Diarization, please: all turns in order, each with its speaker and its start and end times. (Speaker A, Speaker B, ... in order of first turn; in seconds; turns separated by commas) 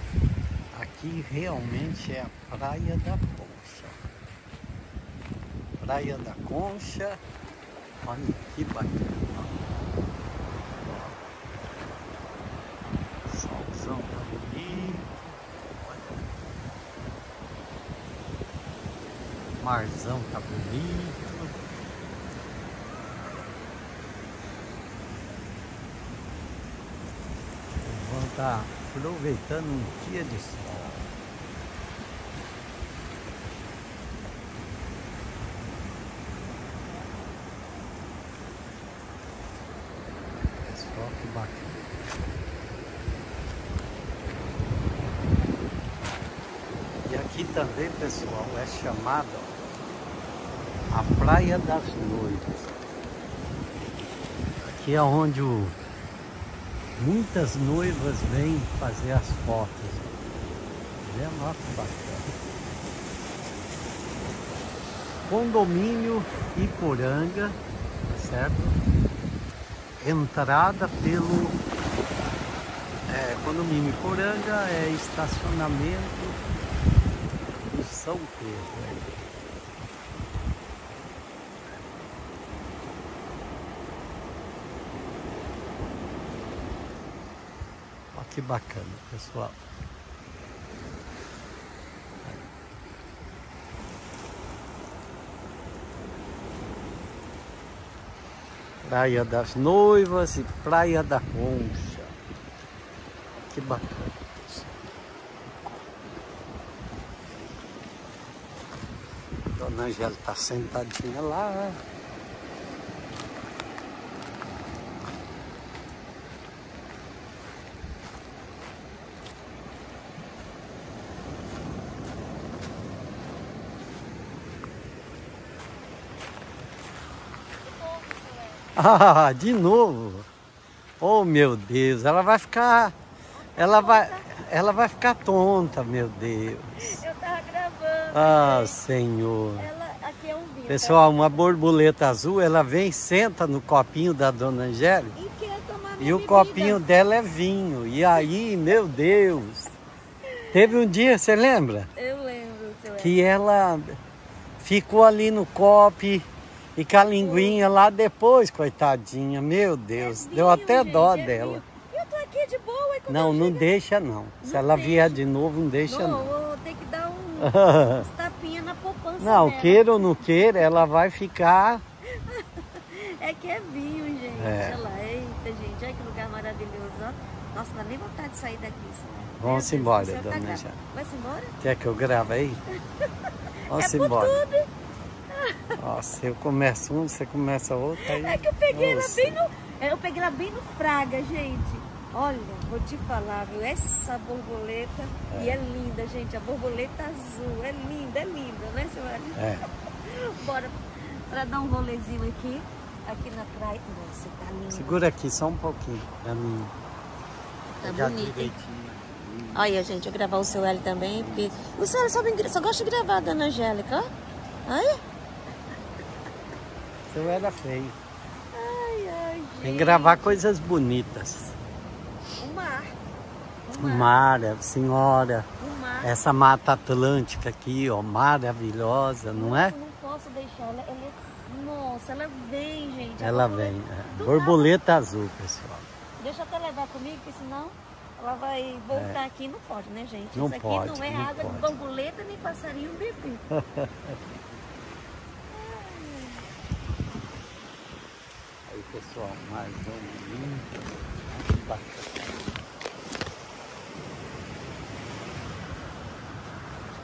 Speaker A: 0.7-4.0, Speaker A: 5.8-7.2, Speaker A: 8.0-9.6, Speaker A: 10.8-11.2, Speaker A: 13.3-16.2, Speaker A: 19.6-21.6, Speaker A: 27.8-31.1, Speaker A: 40.6-42.1, Speaker A: 47.1-49.5, Speaker A: 50.9-52.7, Speaker A: 54.6-55.8, Speaker A: 57.0-60.2, Speaker A: 61.0-62.3, Speaker A: 65.3-68.8, Speaker A: 70.0-71.6, Speaker A: 73.1-76.5, Speaker A: 77.6-79.1, Speaker A: 88.1-89.6, Speaker A: 98.8-102.1, Speaker A: 103.5-104.7, Speaker A: 109.6-111.8, Speaker B: 127.6-128.7, Speaker A: 128.8-130.3, Speaker A: 131.0-132.9, Speaker B: 133.3-134.3, Speaker A: 133.6-137.0, Speaker B: 136.8-138.8, Speaker A: 138.1-139.7, Speaker B: 139.6-141.4, Speaker A: 140.7-145.2, Speaker B: 145.2-146.8, Speaker A: 146.0-149.7, Speaker B: 150.4-150.7, Speaker A: 150.5-151.9, Speaker B: 152.0-153.2, Speaker A: 153.0-154.0, Speaker A: 154.6-161.6, Speaker B: 157.2-157.6, Speaker B: 159.9-163.7, Speaker A: 163.1-166.3, Speaker B: 164.4-165.2, Speaker B: 165.9-170.2, Speaker A: 167.4-168.1, Speaker A: 169.2-171.8, Speaker B: 172.2-181.6, Speaker A: 174.4-174.8, Speaker A: 179.4-180.8, Speaker A: 181.6-182.6, Speaker B: 183.0-184.7, Speaker A: 183.7-184.4, Speaker B: 185.3-185.8, Speaker A: 185.8-189.4, Speaker B: 188.0-205.1, Speaker A: 195.3-195.6, Speaker A: 199.4-199.7, Speaker A: 204.7-206.8, Speaker A: 207.8-209.9, Speaker B: 207.8-208.5, Speaker B: 209.5-214.1, Speaker A: 211.1-211.7, Speaker B: 214.7-215.0, Speaker A: 217.1-218.0, Speaker B: 218.5-220.4, Speaker A: 219.6-221.6, Speaker B: 222.4-222.9, Speaker B: 223.7-224.1, Speaker A: 223.8-225.5, Speaker B: 225.6-226.1, Speaker A: 226.0-229.8, Speaker B: 229.3-234.7, Speaker A: 233.2-235.9, Speaker B: 236.2-243.4, Speaker A: 238.9-239.2, Speaker A: 240.3-241.7, Speaker A: 243.6-244.2, Speaker B: 245.5-246.5, Speaker A: 248.7-252.5